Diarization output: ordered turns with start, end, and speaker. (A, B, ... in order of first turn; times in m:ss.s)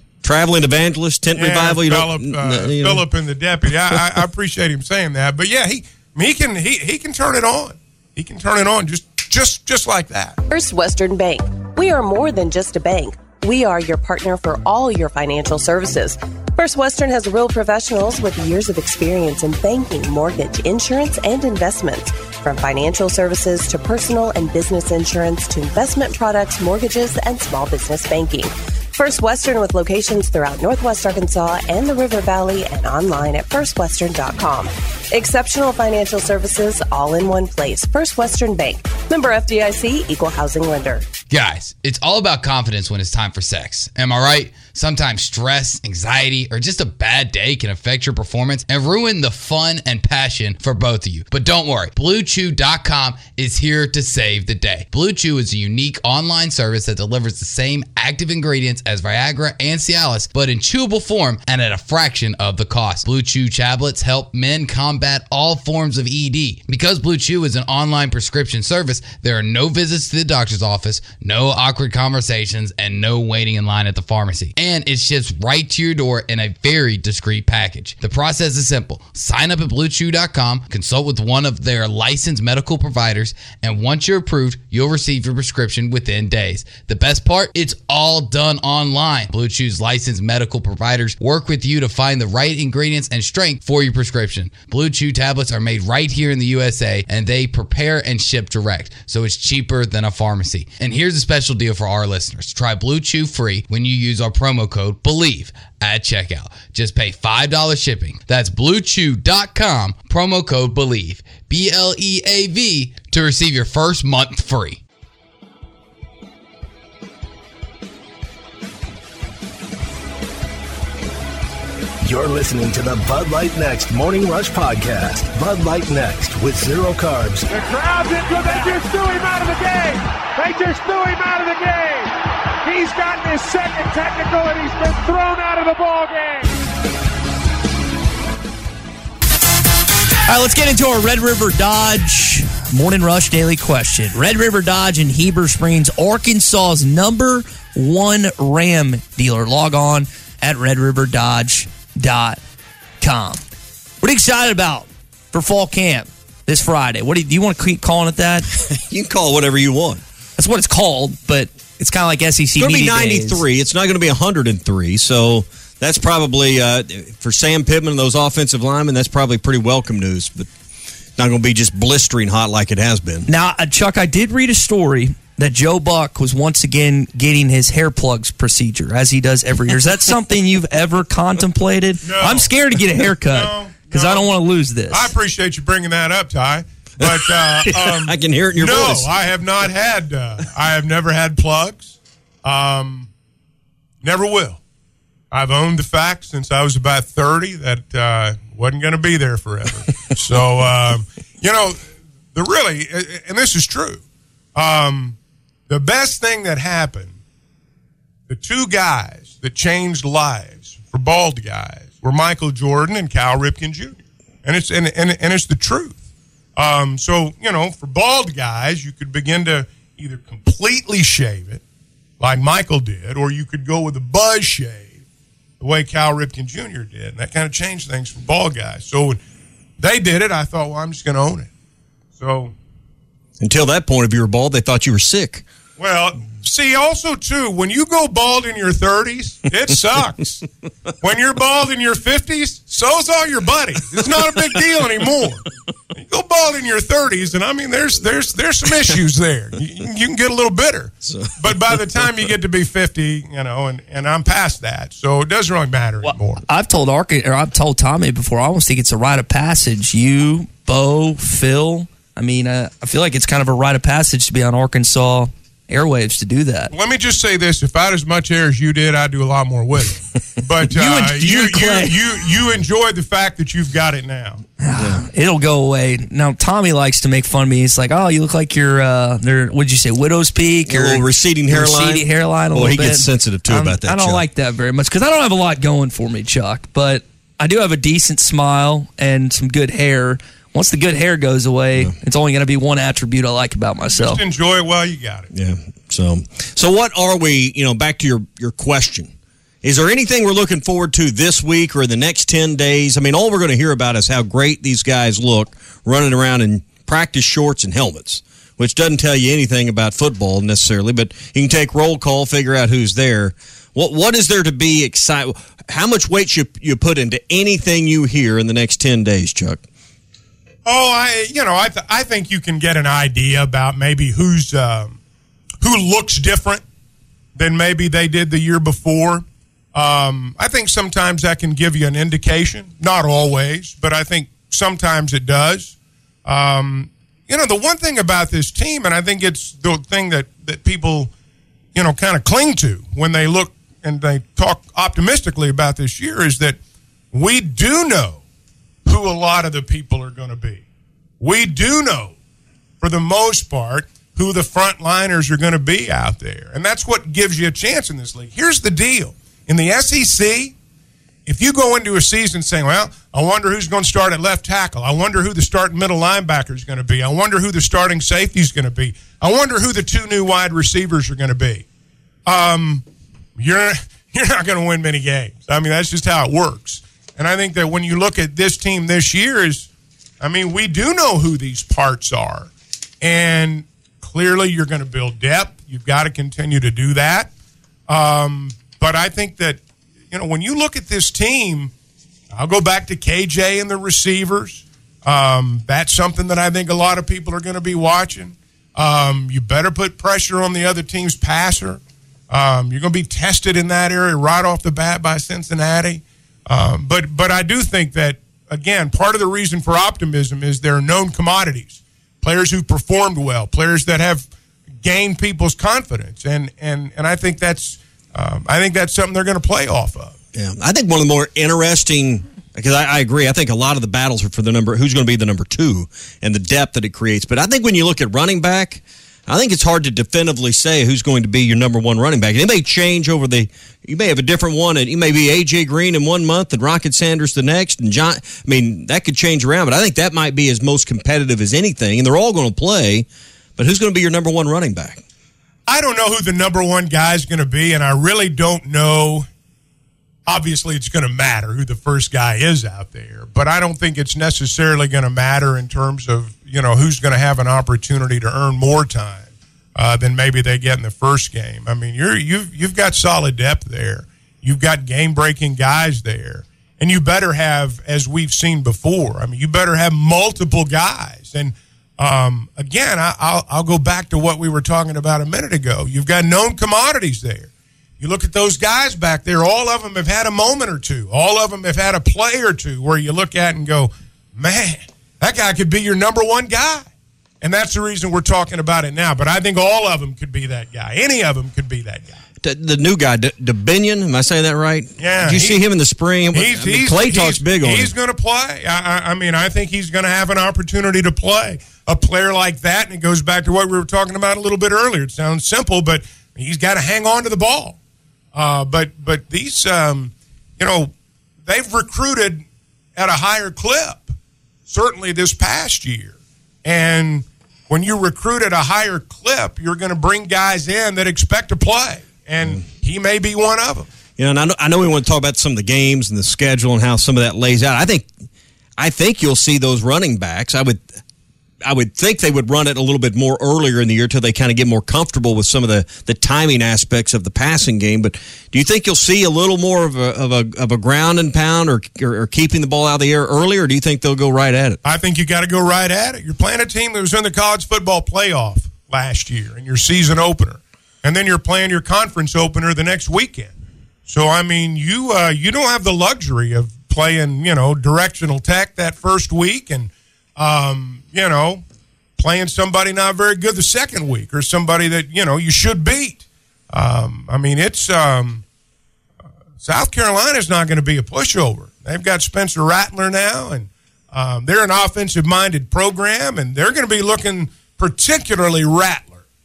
0:00.2-0:03.0 A
0:01.4-0:10.4 B
0:10.5-0:41.0 C
0:41.3-1:54.8 D
2:02.0-2:07.5 E
2:07.5-2:12.1 F
2:12.6-2:16.5 F
2:20.3-2:32.4 G
2:33.0-2:33.4 G
2:34.0-2:38.5 G
2:38.7-2:40.0 A
2:40.4-2:43.4 G
2:42.6-2:50.5 A
2:51.2-2:53.3 A
2:53.3-3:05.1 G
3:02.0-3:02.5 B
3:03.2-3:04.3 B
3:04.9-3:13.1 B
3:07.0-3:09.1 A
3:14.0-3:14.6 B
3:15.3-3:24.0 B
3:24.5-3:25.2 B
3:25.7-3:27.1 B
3:28.3-3:36.0 B
3:36.6-3:41.6 B
3:42.2-3:44.9 B
3:45.6-3:49.2 B
3:49.8-3:51.5 B
3:52.2-3:52.5 B
3:53.4-3:55.4 A
3:55.8-4:00.4 B
4:01.0-4:16.4 B
4:11.0-4:12.1 A
4:16.0-4:26.7 G
4:26.7-4:34.4 B
4:30.7-4:32.0 G
4:34.6-4:54.2 G
4:34.8-4:35.0 A
4:40.7-4:44.2 A
4:53.9-4:55.3 B
4:55.3-4:59.1 A
4:59.6-5:19.6 A
5:20.6-5:25.0 B
5:25.6-5:26.6 B
5:27.3-5:41.1 B
5:41.7-5:46.6 B
5:47.1-5:48.2 B
5:48.8-5:50.6 B
5:51.2-5:52.1 B
5:52.8-6:00.5 B
6:01.2-6:11.6 B
6:12.2-6:12.8 B
6:13.4-6:19.7 B
6:20.2-6:27.3 B
6:27.9-6:31.7 B
6:32.3-6:54.3 B
6:54.8-7:00.1 B
7:00.3-7:23.0 A
7:23.6-7:25.0 A
7:25.7-7:29.2 B
7:30.2-8:06.9 B
8:07.4-8:12.2 B
8:12.4-8:17.9 A
8:15.0-8:15.6 B
8:16.3-8:27.8 B
8:28.3-8:30.9 B
8:31.4-8:32.4 B
8:33.0-8:34.1 B
8:34.7-8:43.9 B
8:44.2-8:48.1 A
8:48.8-8:50.8 A
8:51.6-9:04.8 A
9:04.8-9:13.5 B
9:14.1-9:21.6 B
9:22.2-9:28.4 B
9:29.6-9:39.2 B